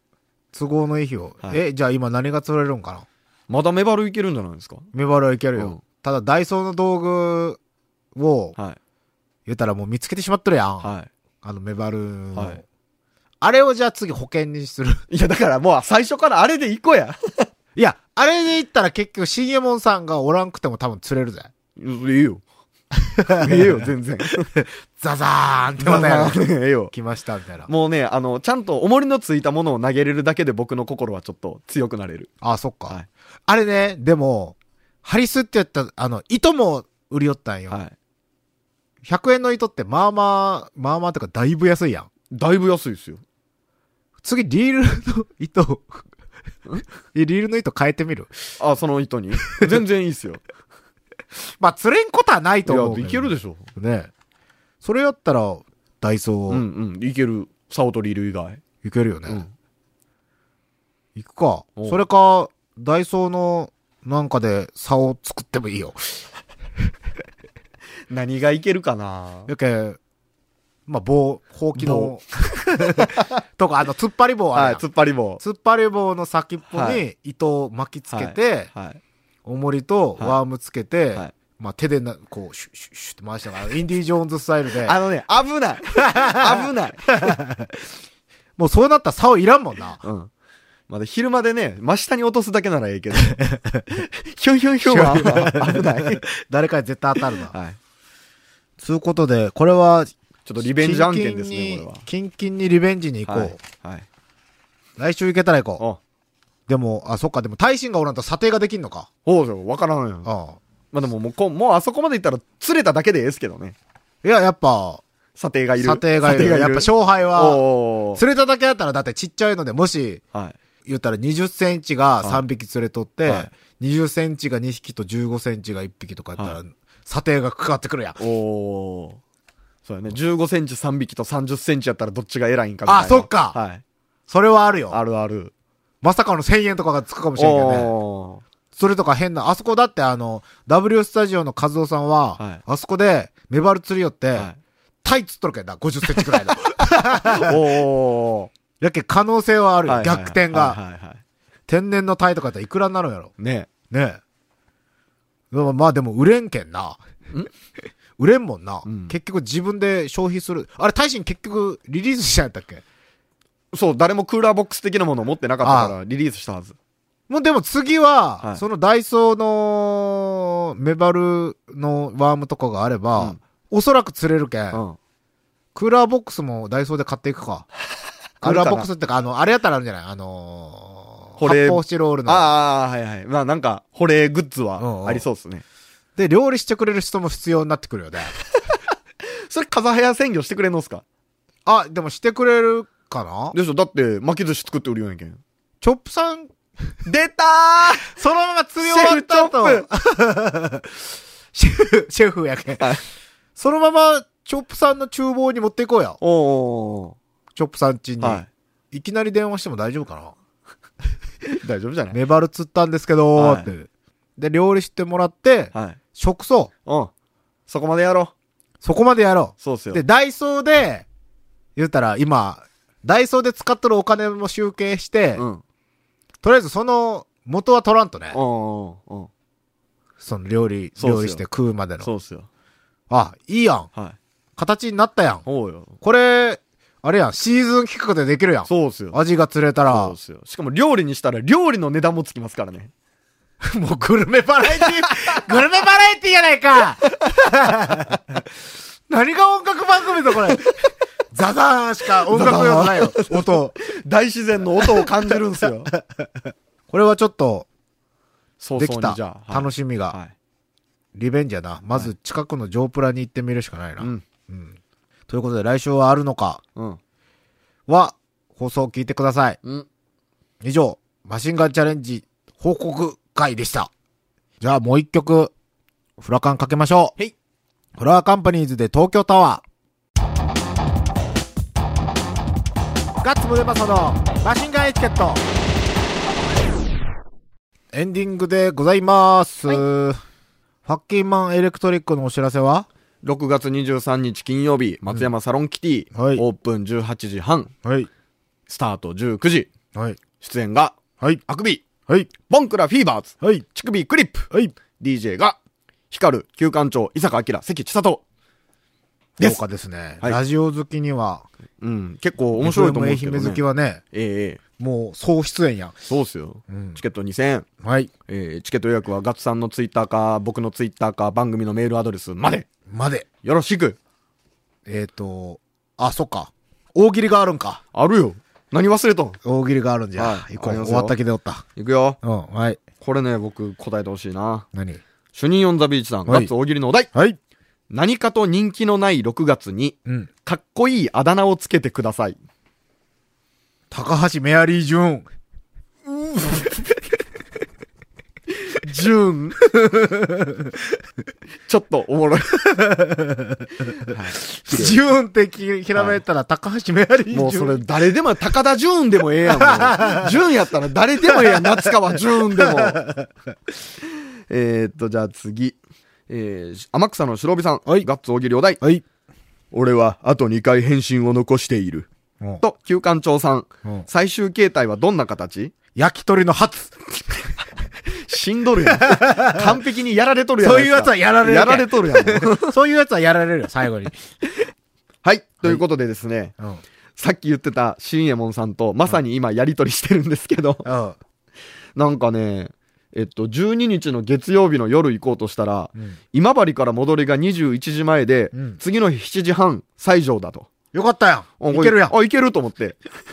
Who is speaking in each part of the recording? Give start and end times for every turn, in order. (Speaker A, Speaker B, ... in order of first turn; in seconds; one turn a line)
Speaker A: 0.5-3.0
Speaker B: 3.5-4.8
Speaker A: 4.9-7.6
Speaker A: 8.1-8.6
Speaker A: 9.4-10.9
Speaker B: 10.8-11.1
Speaker A: 11.4-12.6
Speaker B: 12.3-12.6
Speaker A: 13.4-15.0
Speaker B: 15.1-17.5
Speaker A: 17.8-21.5
Speaker B: 21.8-22.4
Speaker A: 23.1-23.7
Speaker B: 23.4-24.5
Speaker A: 24.5-27.7
Speaker B: 25.8-26.9
Speaker B: 27.6-32.3
Speaker A: 32.4-37.8
Speaker B: 37.7-37.9
Speaker A: 39.0-42.1
Speaker B: 42.3-43.2
Speaker A: 44.2-46.1
Speaker A: 47.1-48.3
Speaker B: 48.6-50.4
Speaker A: 51.6-54.1
Speaker B: 52.6-53.7
Speaker A: 54.8-56.6
Speaker B: 56.5-58.6
Speaker A: 58.8-59.4
Speaker A: 61.1-66.2
Speaker B: 61.8-62.0
Speaker B: 68.1-69.5
Speaker A: 69.5-70.0
Speaker A: 70.9-74.8
Speaker B: 71.8-72.1
Speaker B: 72.8-73.4
Speaker B: 74.5-75.4
Speaker A: 75.4-78.7
Speaker B: 76.7-77.0
Speaker B: 78.1-79.0
Speaker A: 79.4-85.0
Speaker B: 84.8-87.2
Speaker A: 86.0-87.8
Speaker A: 88.6-90.0
Speaker B: 90.0-90.3
Speaker B: 90.9-96.2
Speaker A: 93.1-93.9
Speaker A: 94.8-97.5
Speaker B: 97.5-97.8
Speaker A: 98.8-103.6
Speaker B: 100.5-102.0
Speaker B: 103.3-104.0
Speaker A: 105.0-105.8
Speaker A: 106.7-109.1
Speaker B: 109.2-110.3
Speaker A: 110.2-110.6
Speaker B: 110.9-113.8
Speaker A: 114.2-115.0
Speaker B: 115.4-118.2
Speaker A: 115.8-120.2
Speaker A: 120.8-128.2
Speaker B: 123.2-123.5
Speaker B: 128.2-129.2
Speaker B: 129.8-133.8
Speaker A: 132.8-133.6
Speaker A: 134.3-135.0
Speaker B: 134.9-135.5
Speaker A: 136.0-137.9
Speaker B: 137.3-138.4
Speaker A: 138.8-144.5
Speaker A: 145.0-147.8
Speaker B: 146.1-148.5
Speaker A: 148.8-150.8
Speaker B: 149.8-151.2
Speaker A: 151.7-153.3
Speaker B: 153.4-153.7
Speaker A: 153.9-154.2
Speaker A: 155.5-157.0
Speaker A: 158.2-162.8
Speaker B: 158.8-159.2
Speaker B: 163.7-166.8
Speaker A: 165.6-165.9
Speaker A: 167.3-174.8
Speaker B: 174.7-175.0
Speaker A: 175.7-177.7
Speaker B: 178.4-178.9
Speaker A: 178.4-182.5
Speaker B: 181.4-185.6
Speaker A: 184.8-185.3
Speaker A: 186.2-188.3
Speaker B: 188.3-188.8
Speaker B: 189.5-191.0
Speaker A: 191.7-193.6
Speaker B: 193.5-195.4
Speaker A: 195.8-196.5
Speaker B: 197.0-198.1
Speaker A: 198.0-202.9
Speaker B: 198.8-199.8
Speaker A: 203.6-206.2
Speaker B: 206.2-207.2
Speaker A: 207.5-210.3
Speaker B: 208.2-208.5
Speaker B: 211.5-212.2
Speaker A: 212.1-216.7
Speaker B: 213.3-213.7
Speaker B: 215.7-216.0
Speaker B: 216.8-217.1
Speaker B: 217.7-218.3
Speaker A: 218.8-221.1
Speaker B: 219.6-220.0
Speaker A: 221.8-225.4
Speaker B: 225.3-225.6
Speaker A: 226.4-228.4
Speaker B: 228.3-229.3
Speaker A: 230.2-232.1
Speaker B: 231.0-231.4
Speaker B: 232.0-232.5
Speaker A: 233.1-233.9
Speaker A: 234.6-235.4
Speaker B: 235.4-236.0
Speaker A: 236.0-240.2
Speaker B: 238.7-239.2
Speaker B: 239.9-242.9
Speaker A: 243.6-248.4
Speaker B: 244.6-245.5
Speaker A: 249.1-250.7
Speaker A: 251.3-253.8
Speaker B: 252.3-255.9
Speaker A: 255.9-256.2
Speaker A: 256.9-257.7
Speaker B: 258.6-260.3
Speaker A: 258.8-260.2
Speaker A: 261.1-264.8
Speaker A: 265.3-266.6
Speaker A: 267.9-269.6
Speaker A: 270.6-273.9
Speaker A: 274.6-275.5
Speaker A: 276.2-277.1
Speaker A: 278.0-279.6
Speaker A: 283.2-285.4
Speaker A: 287.9-290.2
Speaker A: 290.9-292.9
Speaker B: 293.2-297.7
Speaker A: 296.1-296.4
Speaker A: 297.8-298.1
Speaker B: 298.7-299.7
Speaker B: 300.4-300.9
Speaker B: 301.5-301.8
Speaker B: 302.5-305.6
Speaker B: 306.1-308.2
Speaker A: 309.4-311.4
Speaker B: 311.8-313.6
Speaker A: 312.6-314.0
Speaker B: 314.1-314.6
Speaker A: 314.8-315.9
Speaker B: 316.1-317.6
Speaker A: 316.7-317.0
Speaker A: 317.8-318.1
Speaker B: 318.3-322.7
Speaker A: 322.9-323.3
Speaker B: 323.4-324.0
Speaker A: 324.9-327.8
Speaker B: 327.9-329.4
Speaker A: 329.4-331.6
Speaker B: 330.2-331.1
Speaker B: 331.8-332.2
Speaker A: 332.2-332.8
Speaker B: 333.0-334.6
Speaker A: 334.7-335.0
Speaker B: 335.3-337.1
Speaker A: 336.2-336.5
Speaker B: 337.9-342.4
Speaker A: 343.9-345.2
Speaker B: 346.2-346.8
Speaker B: 348.6-349.6
Speaker A: 349.7-350.8
Speaker B: 351.6-352.7
Speaker A: 352.7-353.7
Speaker B: 354.0-355.0
Speaker A: 354.4-358.0
Speaker B: 355.9-356.2
Speaker B: 357.3-363.0
Speaker A: 359.5-360.3
Speaker A: 361.3-361.9
Speaker A: 362.5-363.3
Speaker B: 364.0-365.8
Speaker B: 366.3-368.8
Speaker B: 369.7-372.1
Speaker B: 372.6-375.7
Speaker A: 375.9-377.4
Speaker B: 378.1-382.7
Speaker A: 378.8-379.8
Speaker A: 380.6-384.1
Speaker B: 385.2-386.5
Speaker B: 387.2-390.9
Speaker A: 390.8-391.2
Speaker B: 391.9-400.7
Speaker A: 398.5-398.8
Speaker A: 400.9-402.1
Speaker B: 401.6-403.0